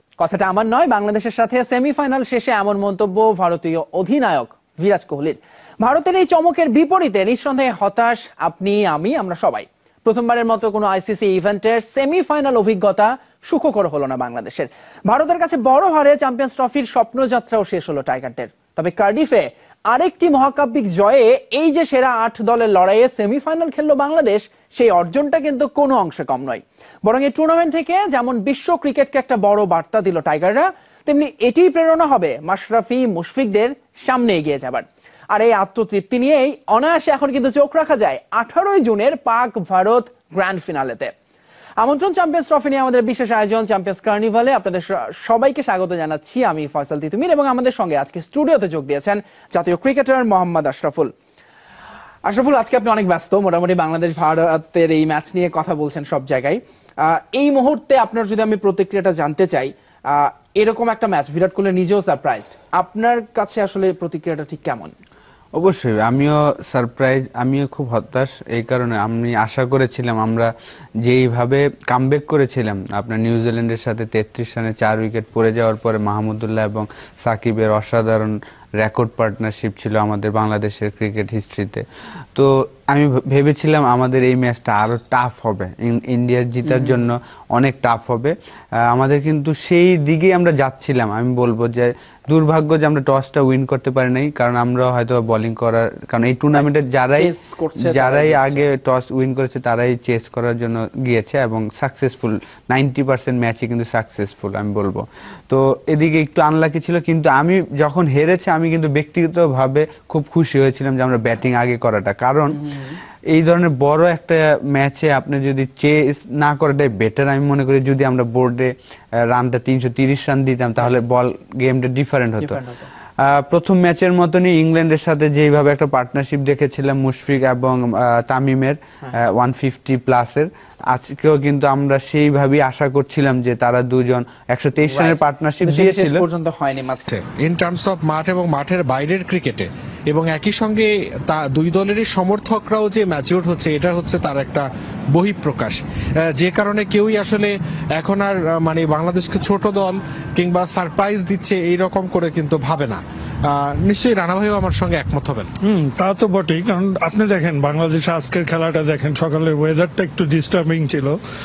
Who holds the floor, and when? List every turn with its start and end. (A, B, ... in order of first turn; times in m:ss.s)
0:00.2-0:41.1 A
0:41.8-0:51.1 A
0:52.2-1:04.9 A
1:05.6-1:10.5 B
1:11.0-1:21.8 B
1:22.4-1:28.3 B
1:26.6-1:27.0 A
1:28.9-1:52.6 B
1:36.6-1:38.7 A
1:52.6-1:53.0 A
1:53.3-2:02.6 B
2:02.4-2:02.9 A
2:03.2-2:08.8 B
2:09.3-2:16.2 B
2:14.9-2:17.1 A
2:17.1-2:35.5 C
2:35.6-2:41.2 D